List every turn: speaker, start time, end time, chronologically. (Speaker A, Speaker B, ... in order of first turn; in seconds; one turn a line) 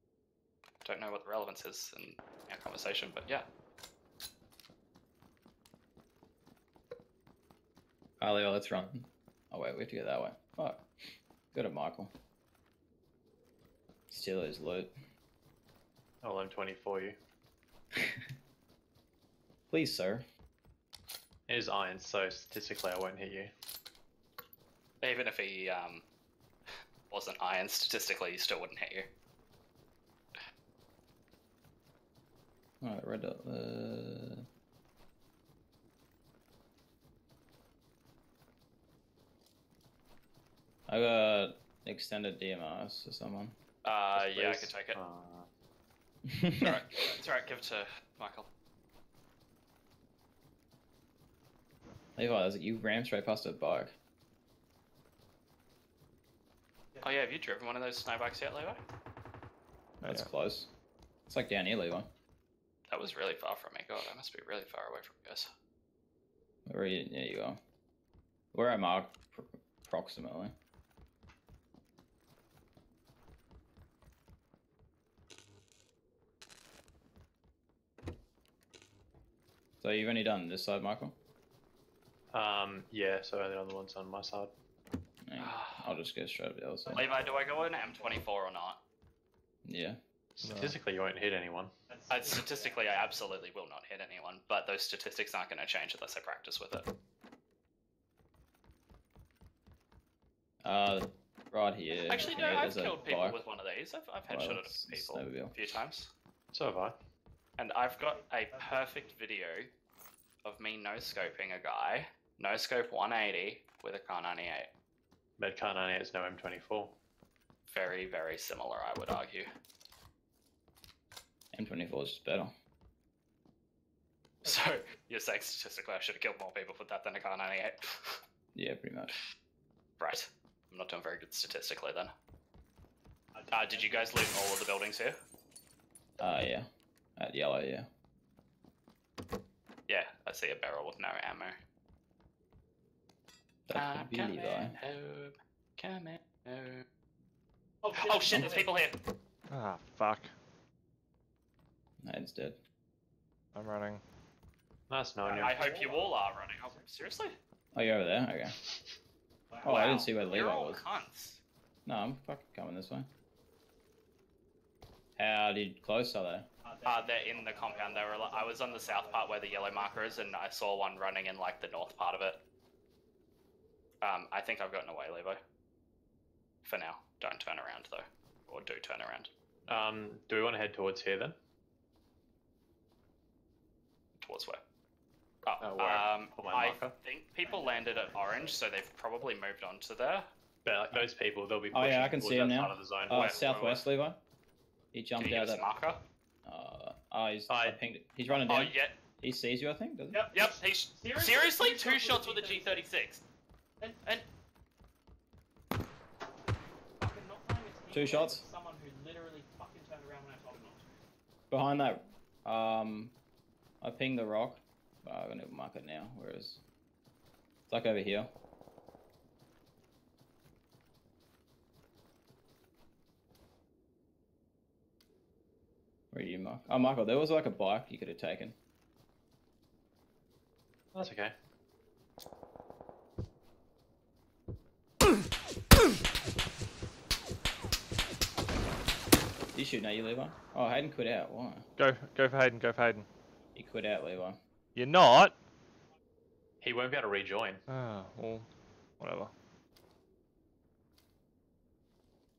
Speaker A: 0.8-3.5
Speaker B: 8.2-10.8
Speaker B: 11.5-12.1
Speaker B: 14.1-14.9
Speaker C: 16.2-17.2
Speaker B: 18.0-18.2
Speaker B: 19.7-20.2
Speaker C: 21.5-23.5
Speaker A: 25.0-26.1
Speaker A: 27.1-29.1
Speaker B: 32.8-34.5
Speaker B: 40.9-43.6
Speaker A: 43.8-45.0
Speaker C: 44.1-45.5
Speaker B: 46.3-46.8
Speaker A: 46.6-48.5
Speaker B: 52.2-53.9
Speaker A: 57.0-58.8
Speaker B: 60.0-60.7
Speaker B: 61.3-62.1
Speaker A: 62.9-65.5
Speaker B: 66.7-67.6
Speaker B: 68.5-70.5
Speaker B: 79.8-81.2
Speaker C: 82.3-84.5
Speaker B: 85.3-87.1
Speaker A: 85.4-85.9
Speaker A: 86.9-88.8
Speaker D: 87.0-87.4
Speaker B: 89.7-90.0
Speaker C: 90.4-91.7
Speaker E: 90.4-90.8
Speaker D: 91.9-93.1
Speaker A: 92.1-96.9
Speaker B: 100.6-103.4
Speaker D: 102.0-102.8
Speaker A: 102.0-106.1
Speaker B: 104.3-105.6
Speaker C: 106.5-107.0
Speaker A: 107.6-109.7
Speaker D: 108.2-109.1
Speaker A: 110.4-114.7
Speaker C: 115.4-116.9
Speaker A: 117.7-119.5
Speaker B: 121.5-122.5
Speaker A: 124.4-128.2
Speaker B: 128.6-129.2
Speaker A: 130.0-132.1
Speaker D: 133.3-134.1
Speaker A: 133.5-135.2
Speaker B: 136.2-137.9
Speaker A: 139.9-141.6
Speaker B: 143.7-144.8
Speaker A: 143.7-146.8
Speaker D: 147.8-148.7
Speaker A: 147.9-149.0
Speaker E: 149.5-150.3
Speaker B: 152.0-152.6
Speaker E: 153.6-154.0
Speaker C: 154.9-155.7
Speaker D: 155.2-156.2
Speaker A: 155.3-157.3
Speaker B: 157.7-158.6
Speaker B: 159.6-160.8
Speaker A: 159.6-161.4
Speaker B: 161.9-163.1
Speaker B: 165.2-166.5
Speaker D: 166.7-170.2
Speaker A: 166.8-172.4
Speaker A: 174.0-175.4
Speaker A: 176.6-179.3
Speaker C: 179.7-181.3
Speaker A: 184.2-184.6
Speaker A: 185.4-190.3
Speaker C: 185.6-187.0
Speaker D: 187.4-188.6
Speaker C: 190.7-193.8
Speaker B: 191.7-194.2
Speaker A: 193.1-193.6
Speaker B: 194.9-195.7
Speaker A: 195.2-196.0
Speaker B: 196.4-200.3
Speaker C: 197.5-197.8
Speaker A: 198.4-199.0
Speaker D: 200.1-202.8
Speaker A: 200.3-203.2
Speaker D: 203.8-204.2
Speaker D: 207.0-210.9
Speaker B: 207.9-208.4
Speaker B: 211.5-213.1
Speaker B: 213.8-216.6
Speaker B: 217.7-218.3
Speaker B: 226.1-228.6
Speaker C: 230.9-231.3
Speaker B: 239.5-241.7
Speaker E: 241.8-243.1
Speaker B: 243.6-244.4
Speaker E: 244.8-245.4
Speaker C: 246.6-247.6
Speaker E: 247.7-248.5
Speaker E: 249.0-249.3